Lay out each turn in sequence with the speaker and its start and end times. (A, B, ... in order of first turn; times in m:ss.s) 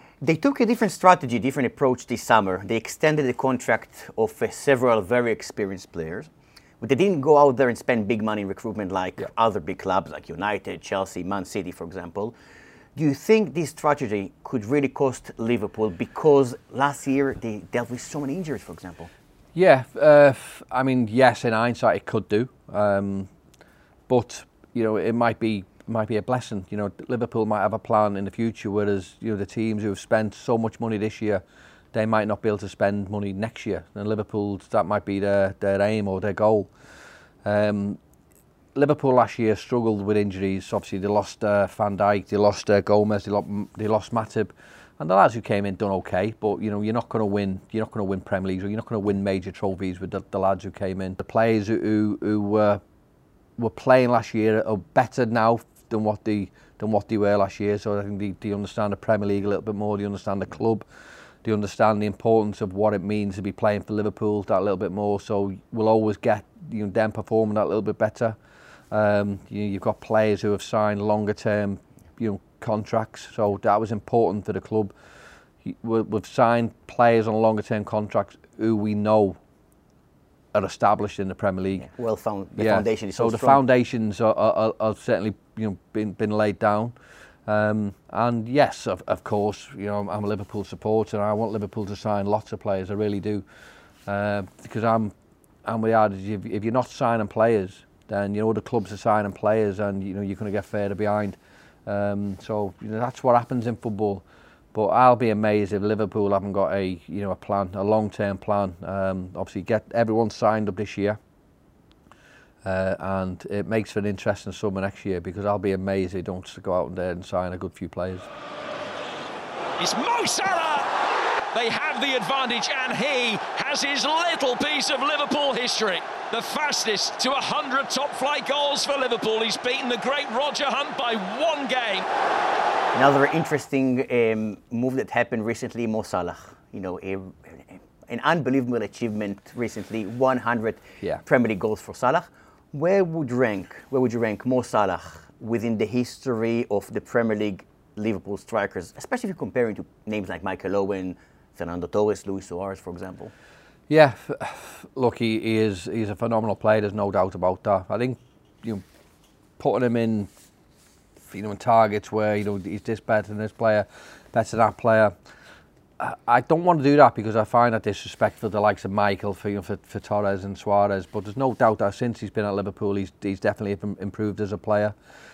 0:00.2-0:12.4 A
0:13.0-0:19.1 A
0:19.6-0:23.3 B
0:24.1-0:36.7 B
0:37.4-0:38.0 B
0:38.8-0:52.8 B
0:53.6-1:00.8 B
1:01.4-1:08.4 B
1:08.9-1:14.9 B
1:15.6-1:19.4 B
1:20.5-1:21.9 B
1:21.8-1:23.6 A
1:22.6-1:33.4 B
1:34.1-1:51.2 B
1:52.6-1:58.3 B
1:59.8-2:00.9 C
2:01.5-2:12.1 C
2:12.9-2:33.3 A
2:33.9-2:38.8 B
2:39.6-2:40.3 B
2:41.3-2:45.2 B
2:46.0-2:55.0 B